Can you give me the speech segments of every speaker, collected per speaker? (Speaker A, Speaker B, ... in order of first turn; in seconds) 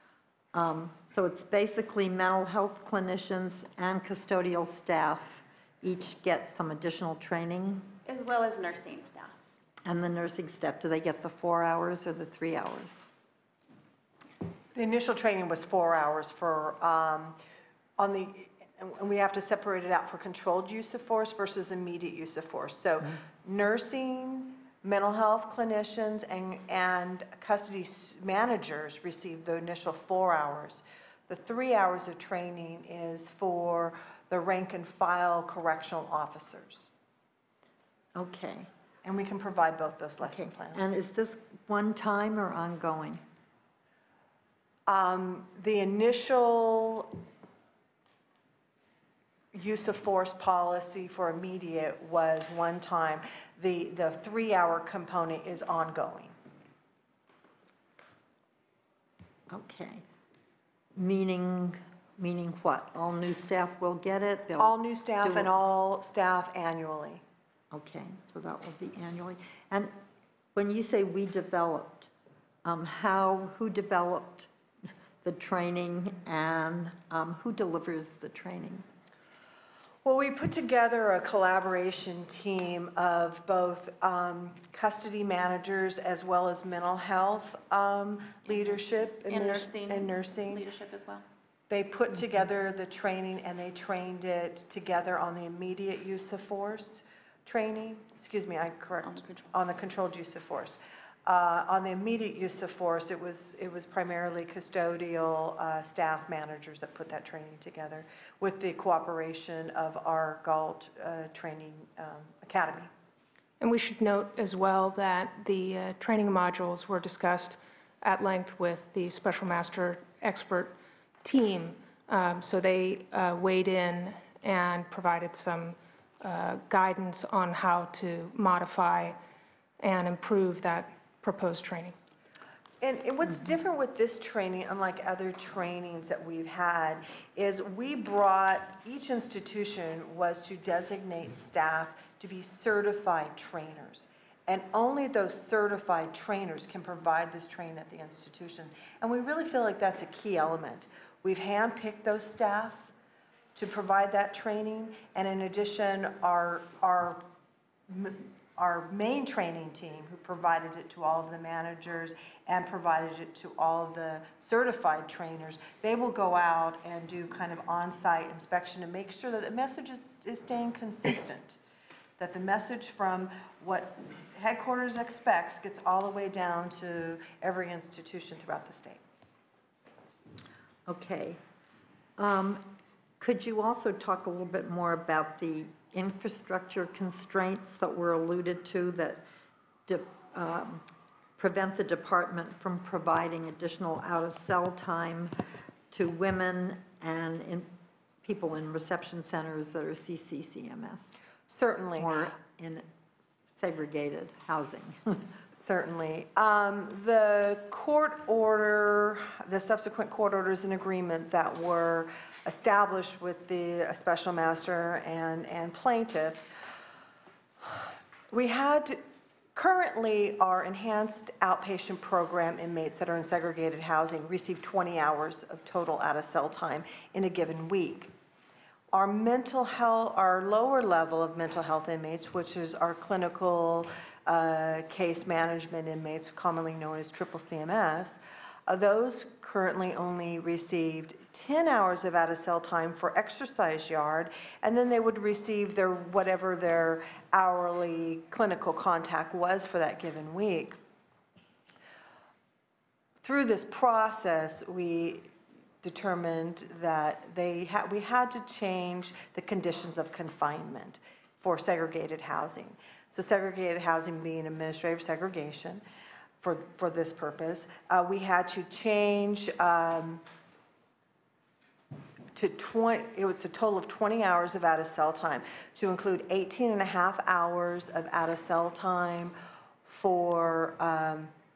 Speaker A: 0.5-7.9, 9.8-13.0, 38.1-38.7, 40.2-43.2, 59.5-60.0, 61.0-65.5, 67.7-69.9, 70.5-72.1, 72.6-74.5, 75.2-78.8, 180.9-181.4, 182.2-189.2, 189.9-190.8, 191.4-195.3, 195.9-197.7, 198.2-201.1, 202.0-202.8, 203.6-205.3
Speaker B: 8.1-9.3, 89.3-91.2, 99.0-99.5
Speaker C: 14.7-17.4, 18.0-36.9, 39.0-40.9, 44.9-47.2, 49.5-56.3, 64.6-67.2, 80.0-90.6, 91.7-112.9, 132.8-152.9, 153.5-157.2, 157.9-171.6, 172.2-179.0, 201.5-202.2, 205.5-216.5, 217.6-219.0, 219.5-228.1, 228.9-250.8, 253.2-255.3, 255.8-265.8, 266.4-270.2, 272.3-279.3, 279.9-281.3
Speaker D: 113.6-120.7, 121.2-129.2, 129.8-131.9